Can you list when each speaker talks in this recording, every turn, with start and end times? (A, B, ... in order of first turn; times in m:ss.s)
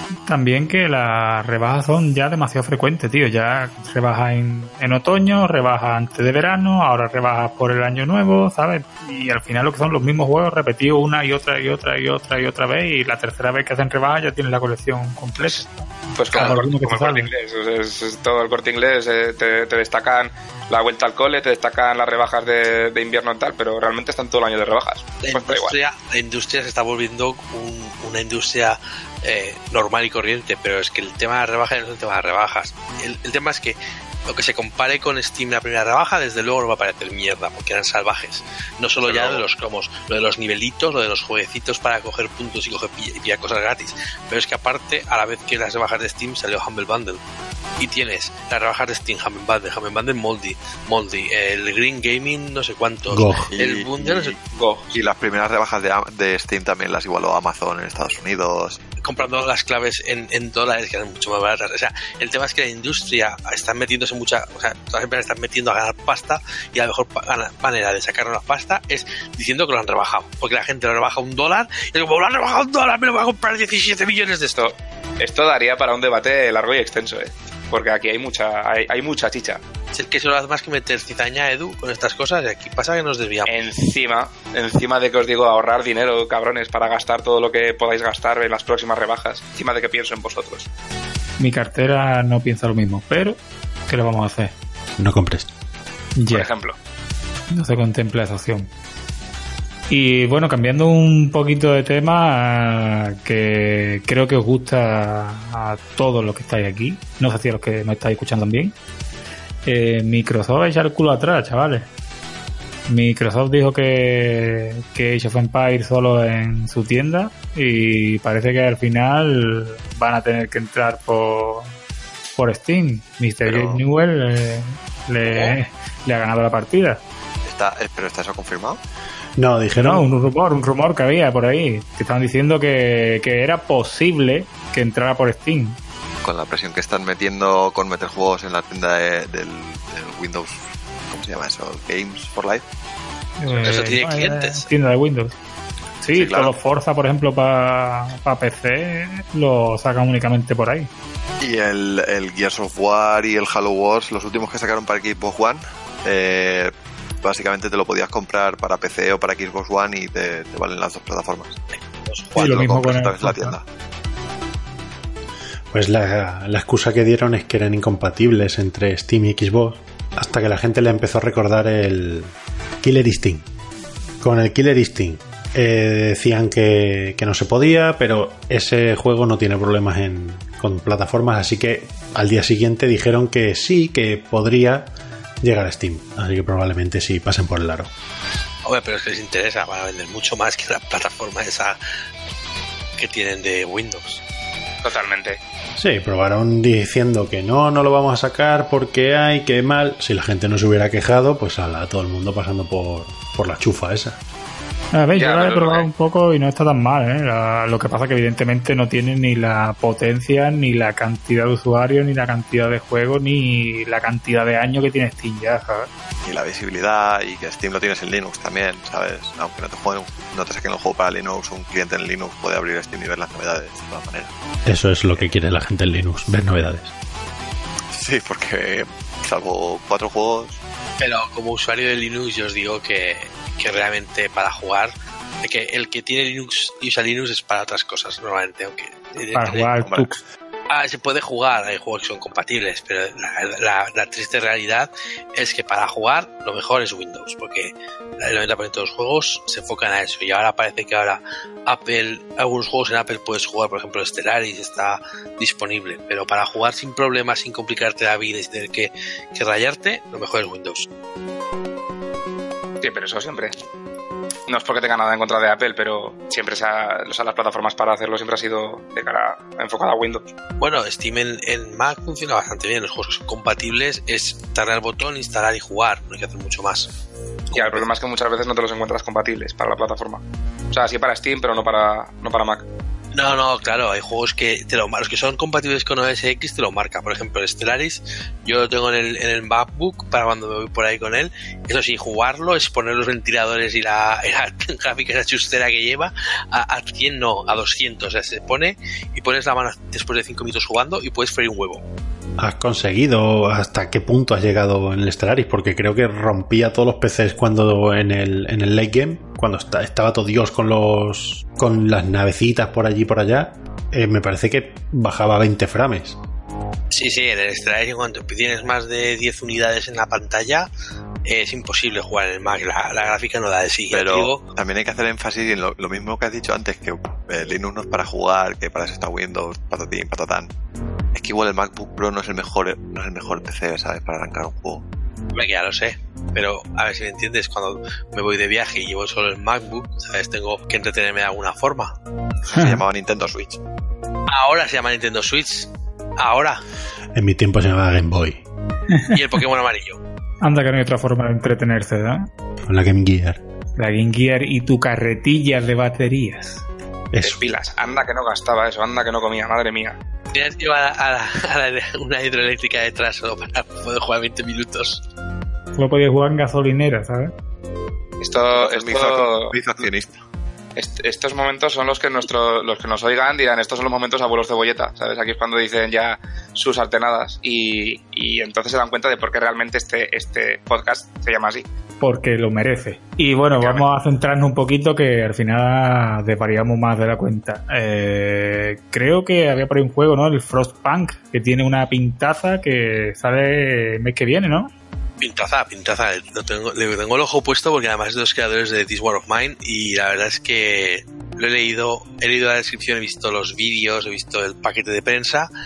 0:00.3-0:17.3 A
0:15.4-0:25.8 B
0:25.2-0:33.8 C
0:34.3-0:47.2 C
0:39.0-0:39.4 D
0:47.8-0:54.4 C
0:53.1-0:53.5 E
0:53.5-0:54.4 D
0:54.4-0:54.9 B
0:54.9-0:58.8 D
0:59.0-1:14.7 C
1:14.6-1:19.6 B
1:19.9-1:23.6 C
1:23.4-1:30.7 B
1:31.4-1:34.5 A
1:35.0-1:35.5 E
1:36.2-1:36.5 A
1:36.3-1:36.8 B
1:37.5-1:38.7 A
1:39.9-1:48.7 A
1:49.6-1:51.9 A
1:52.9-2:01.7 A
2:02.4-2:07.0 A
2:03.4-2:03.8 D
2:05.2-2:05.6 C
2:07.4-2:08.8 D
2:09.4-2:10.1 E
2:09.7-2:15.8 A
2:16.2-2:22.6 D
2:23.4-2:25.3 A
2:23.6-2:24.7 C
2:26.0-2:30.9 A
2:26.1-2:26.5 D
2:31.4-2:41.6 D
2:42.0-2:42.7 C
2:42.4-2:43.6 A
2:42.4-2:43.6 D
2:45.7-2:52.3 E
2:52.8-2:53.4 E
2:54.2-3:07.9 E
3:08.6-3:11.8 C
3:13.0-3:14.2 C
3:14.8-3:15.4 B
3:15.8-3:24.2 E
3:24.9-3:35.9 A
3:25.1-3:25.9 B
3:36.2-3:44.3 D
3:44.6-3:46.9 E
3:47.9-3:50.6 D
3:51.0-3:59.7 C
3:59.3-4:00.2 A
3:59.8-4:00.1 D
4:00.7-4:20.9 C
4:22.8-4:23.6 B
4:24.5-4:30.3 B
4:30.6-4:36.9 C
4:37.5-4:37.9 C
4:37.5-4:42.6 B
4:43.1-5:01.8 C
5:02.4-5:16.2 E
5:16.9-5:20.7 C
5:21.2-5:24.4 C
5:23.9-5:30.5 D
5:31.1-5:34.8 D
5:35.3-5:41.9 C
5:42.4-5:43.6 D
5:42.5-5:42.8 A
5:44.3-5:46.6 C
5:47.1-5:48.4 E
5:49.1-5:50.0 C
5:50.4-5:52.3 A
5:52.6-5:53.4 E
5:53.8-5:56.6 A
5:57.1-5:57.4 E
5:57.2-6:00.0 B
6:00.3-6:05.0 C
6:05.8-6:07.3 A
6:08.2-6:09.6 B
6:08.5-6:10.2 D
6:10.8-6:21.7 B
6:22.0-6:34.7 A
6:23.6-6:23.9 B
6:35.2-6:45.5 C